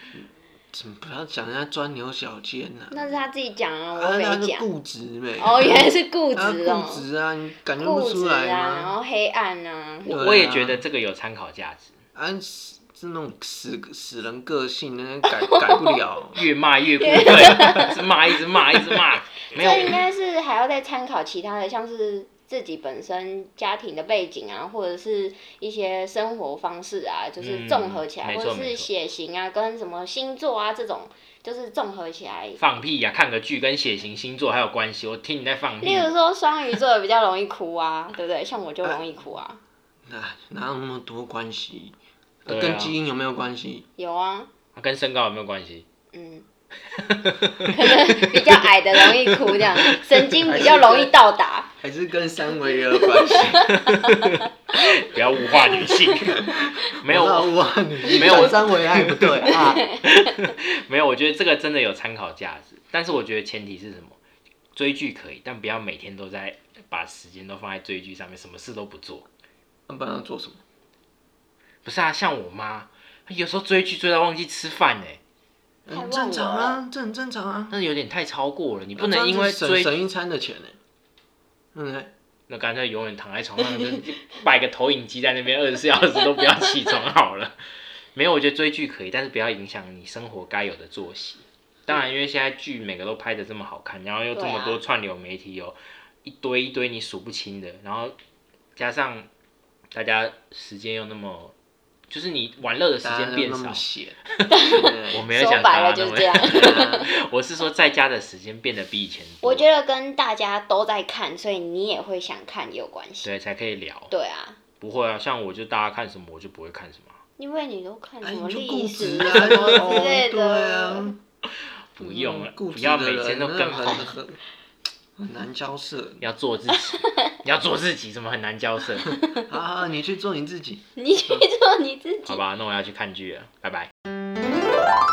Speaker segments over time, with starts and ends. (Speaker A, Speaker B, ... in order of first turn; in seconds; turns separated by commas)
Speaker A: 0.1-3.1, Speaker B: 2.9-4.7, Speaker A: 3.9-8.9, Speaker B: 5.4-7.0, Speaker B: 7.8-10.2, Speaker C: 10.0-11.9, Speaker A: 10.1-10.8, Speaker A: 12.1-16.4, Speaker B: 15.3-15.9, Speaker C: 16.3-19.9, Speaker B: 17.0-18.4, Speaker B: 19.5-32.6, Speaker C: 27.4-28.9, Speaker C: 32.6-36.1, Speaker B: 35.8-39.6, Speaker A: 40.1-43.9, Speaker C: 42.5-43.0, Speaker B: 44.0-44.5, Speaker C: 44.7-45.9, Speaker B: 46.1-46.5, Speaker C: 47.0-47.9, Speaker B: 47.7-51.7, Speaker C: 49.6-49.9, Speaker A: 50.4-51.1, Speaker A: 51.8-53.6, Speaker B: 53.0-54.8, Speaker C: 53.9-57.6, Speaker B: 55.8-56.6, Speaker A: 56.5-59.9, Speaker C: 58.1-59.5, Speaker C: 60.0-64.2, Speaker C: 64.8-69.3, Speaker A: 69.9-70.6, Speaker C: 71.8-75.2, Speaker A: 75.9-77.8, Speaker B: 75.9-76.8, Speaker C: 77.7-80.0, Speaker A: 79.0-80.8, Speaker A: 81.7-82.1, Speaker C: 82.5-87.6, Speaker C: 88.1-98.1, Speaker B: 94.3-94.8, Speaker C: 98.8-99.3, Speaker C: 99.9-101.5, Speaker C: 102.1-103.8, Speaker A: 103.0-105.2, Speaker B: 104.5-107.1, Speaker C: 105.1-109.7, Speaker A: 106.4-107.1, Speaker B: 109.4-113.3, Speaker C: 113.2-114.1, Speaker B: 114.1-114.6, Speaker C: 114.8-117.2, Speaker B: 117.4-121.1, Speaker A: 118.2-121.2, Speaker C: 122.0-124.1, Speaker A: 122.0-124.4, Speaker A: 125.2-126.3, Speaker C: 126.2-129.1, Speaker B: 126.9-127.2, Speaker A: 129.0-131.5, Speaker B: 130.9-132.4, Speaker C: 132.3-133.9